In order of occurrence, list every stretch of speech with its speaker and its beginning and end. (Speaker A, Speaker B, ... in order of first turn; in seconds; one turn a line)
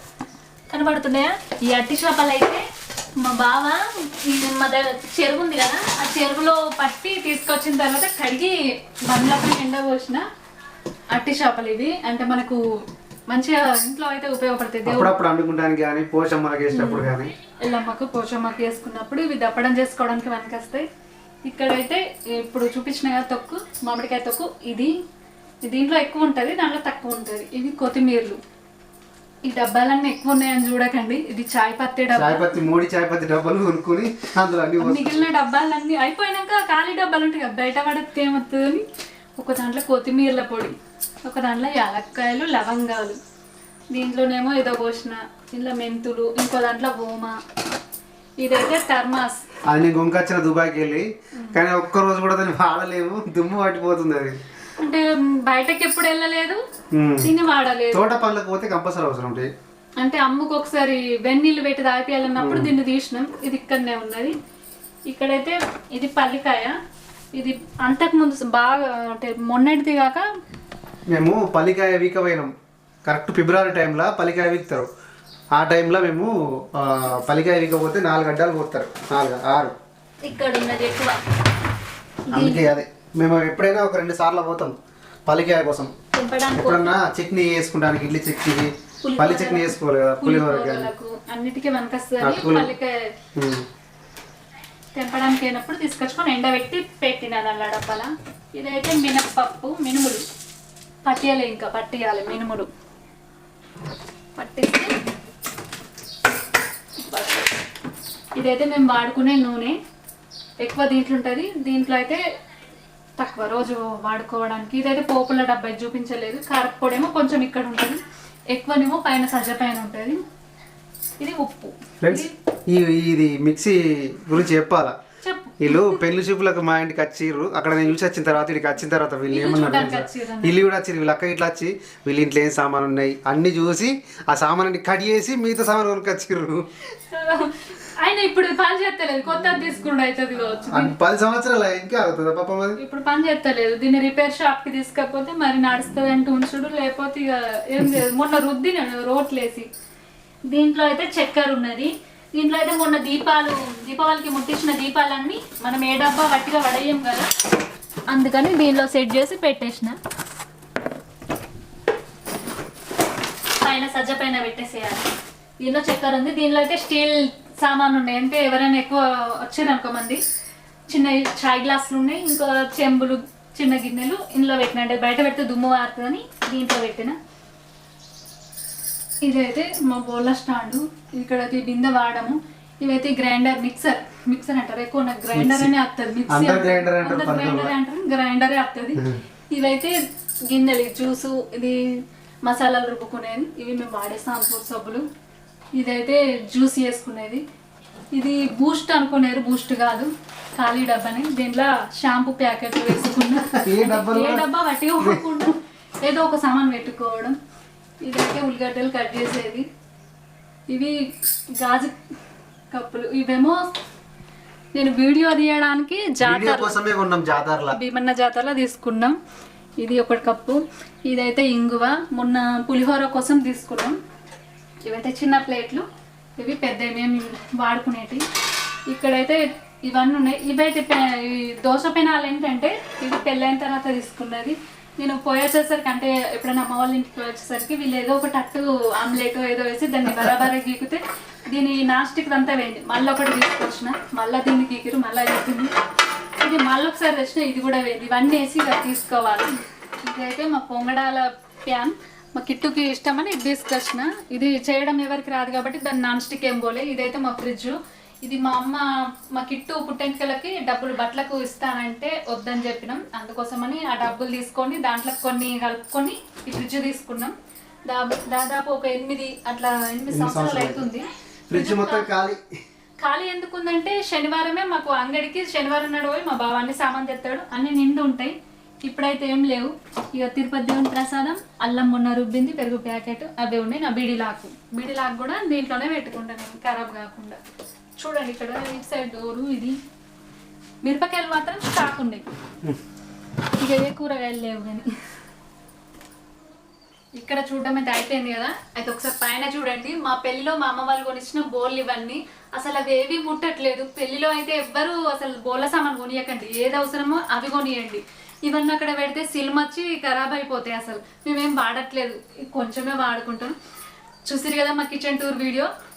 Speaker A: 0.7-2.6
Speaker A: 3.2-10.2
Speaker A: 11.1-12.6
Speaker A: 13.3-15.1
Speaker B: 14.8-17.3
Speaker A: 16.7-17.1
Speaker A: 17.6-20.8
Speaker A: 21.4-24.9
Speaker A: 25.6-28.4
Speaker A: 29.4-32.5
Speaker B: 32.1-35.2
Speaker A: 34.8-38.8
Speaker A: 39.4-43.2
Speaker A: 43.9-47.4
Speaker A: 48.4-49.4
Speaker B: 49.6-54.4
Speaker A: 54.8-56.6
Speaker B: 56.9-57.3
Speaker A: 57.2-58.0
Speaker B: 57.9-59.5
Speaker A: 60.0-64.3
Speaker B: 62.4-62.7
Speaker A: 65.1-66.8
Speaker A: 67.3-70.2
Speaker B: 71.1-72.5
Speaker B: 73.0-74.9
Speaker B: 75.5-79.7
Speaker A: 80.2-81.2
Speaker A: 82.3-82.7
Speaker B: 82.3-84.7
Speaker B: 85.3-85.9
Speaker A: 86.1-86.9
Speaker B: 86.5-90.9
Speaker A: 89.0-93.1
Speaker B: 92.2-92.7
Speaker B: 93.3-93.7
Speaker A: 94.9-100.2
Speaker A: 101.0-102.7
Speaker A: 104.4-105.0
Speaker A: 107.0-107.4
Speaker A: 108.3-109.8
Speaker A: 110.6-112.2
Speaker A: 113.2-118.0
Speaker A: 118.5-120.2
Speaker A: 121.2-122.3
Speaker B: 122.0-124.9
Speaker A: 125.2-126.0
Speaker B: 125.6-136.6
Speaker A: 129.3-130.6
Speaker A: 136.9-140.9
Speaker B: 140.7-142.8
Speaker A: 142.8-149.7
Speaker A: 150.5-157.3
Speaker A: 158.1-160.0
Speaker A: 163.6-170.2
Speaker A: 170.9-177.2
Speaker A: 179.2-189.9
Speaker B: 185.3-185.7
Speaker B: 186.3-187.7
Speaker A: 190.5-191.9
Speaker A: 192.4-195.1
Speaker A: 195.7-197.4
Speaker A: 198.1-207.3
Speaker B: 203.6-204.5
Speaker B: 205.0-205.3
Speaker A: 208.0-209.7
Speaker A: 210.7-211.0
Speaker A: 211.6-211.9
Speaker A: 212.7-213.8
Speaker A: 214.7-216.8
Speaker B: 216.2-217.8
Speaker A: 217.7-219.2
Speaker A: 219.8-223.9
Speaker A: 224.9-225.8
Speaker A: 226.4-228.2
Speaker A: 228.9-245.7
Speaker A: 246.4-267.3
Speaker A: 267.9-272.1
Speaker B: 270.1-270.9
Speaker B: 271.5-272.4
Speaker A: 273.0-287.4
Speaker A: 288.0-289.8
Speaker A: 290.8-292.2
Speaker A: 293.6-294.9
Speaker A: 297.1-313.5
Speaker A: 314.2-315.7